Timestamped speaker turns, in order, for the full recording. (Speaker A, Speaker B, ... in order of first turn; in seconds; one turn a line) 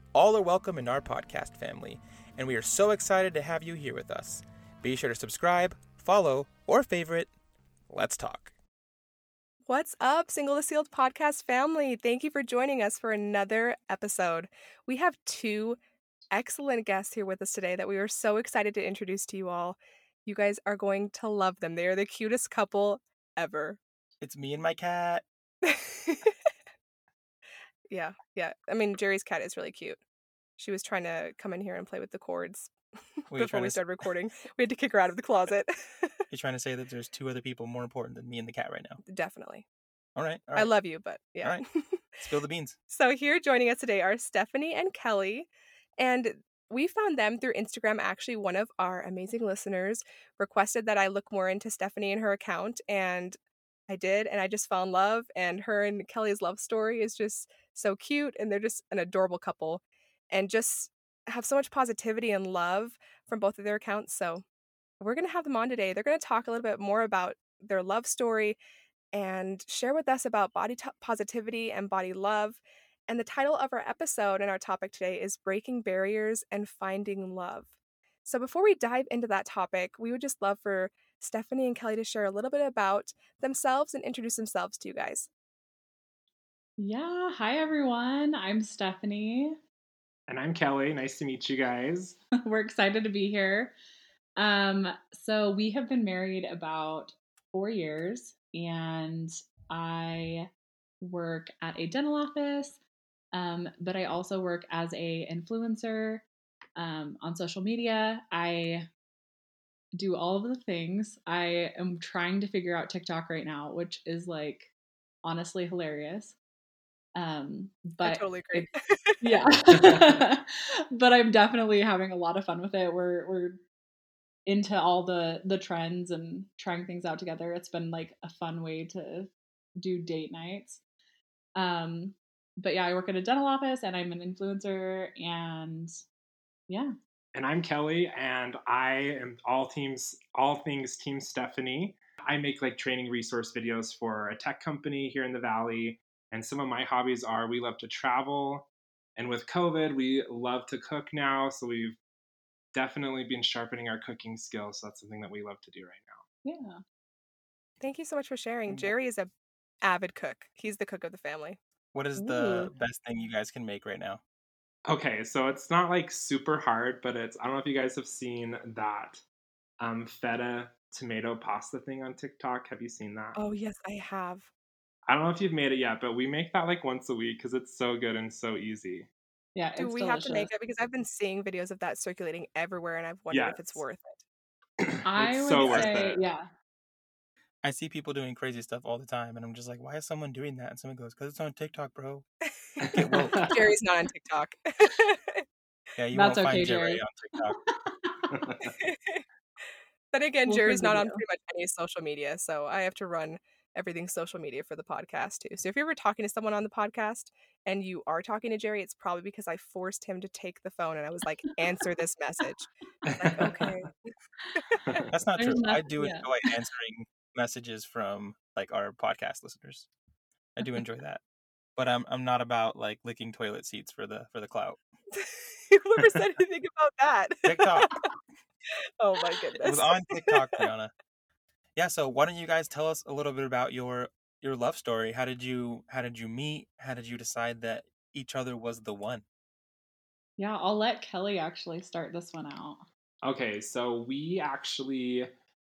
Speaker A: 0.1-7.3
Speaker A: 7.9-8.5
Speaker B: 9.7-15.8
Speaker B: 16.3-23.8
Speaker A: 24.2-25.2
Speaker B: 25.6-26.3
Speaker B: 27.9-30.0
Speaker B: 30.6-36.2
Speaker A: 33.3-33.8
Speaker A: 36.3-39.0
Speaker B: 39.0-39.6
Speaker A: 40.1-40.7
Speaker B: 40.5-42.2
Speaker A: 42.2-42.8
Speaker B: 42.9-53.4
Speaker B: 53.9-64.4
Speaker B: 65.0-68.6
Speaker B: 69.1-77.7
Speaker B: 78.2-85.3
Speaker C: 86.8-89.6
Speaker D: 90.3-92.2
Speaker C: 92.4-93.7
Speaker C: 94.4-100.5
Speaker C: 101.0-102.8
Speaker C: 103.3-106.2
Speaker C: 106.8-108.9
Speaker C: 110.0-114.7
Speaker C: 115.2-116.3
Speaker C: 117.1-118.7
Speaker B: 118.0-119.4
Speaker C: 119.2-123.6
Speaker C: 124.5-130.8
Speaker C: 131.6-135.9
Speaker C: 136.7-136.9
Speaker D: 137.3-152.0
Speaker D: 152.7-156.2
Speaker C: 156.4-156.8
Speaker B: 157.8-159.3
Speaker B: 159.8-161.6
Speaker A: 161.9-164.2
Speaker C: 162.2-162.7
Speaker D: 164.9-169.2
Speaker D: 169.8-173.4
Speaker B: 173.3-174.5
Speaker D: 175.1-179.1
Speaker C: 179.5-180.5
Speaker B: 179.8-184.2
Speaker D: 183.3-183.8
Speaker D: 184.8-186.2
Speaker C: 185.0-186.5
Speaker A: 185.6-186.2
Speaker A: 187.6-192.2
Speaker B: 192.4-195.4
Speaker D: 192.8-193.5
Speaker A: 192.9-193.5
Speaker A: 195.9-197.6
Speaker C: 196.1-197.0
Speaker C: 197.7-198.2
Speaker D: 198.3-198.8
Speaker B: 198.8-199.2
Speaker B: 200.1-214.1
Speaker C: 200.4-201.2
Speaker D: 213.1-213.6
Speaker A: 215.1-219.9
Speaker C: 215.3-216.5
Speaker A: 220.6-221.2
Speaker A: 221.8-224.8
Speaker B: 225.2-228.0
Speaker A: 227.4-227.9
Speaker B: 229.0-230.6
Speaker A: 229.6-230.9
Speaker A: 231.8-239.2
Speaker C: 240.4-242.8
Speaker D: 243.2-245.3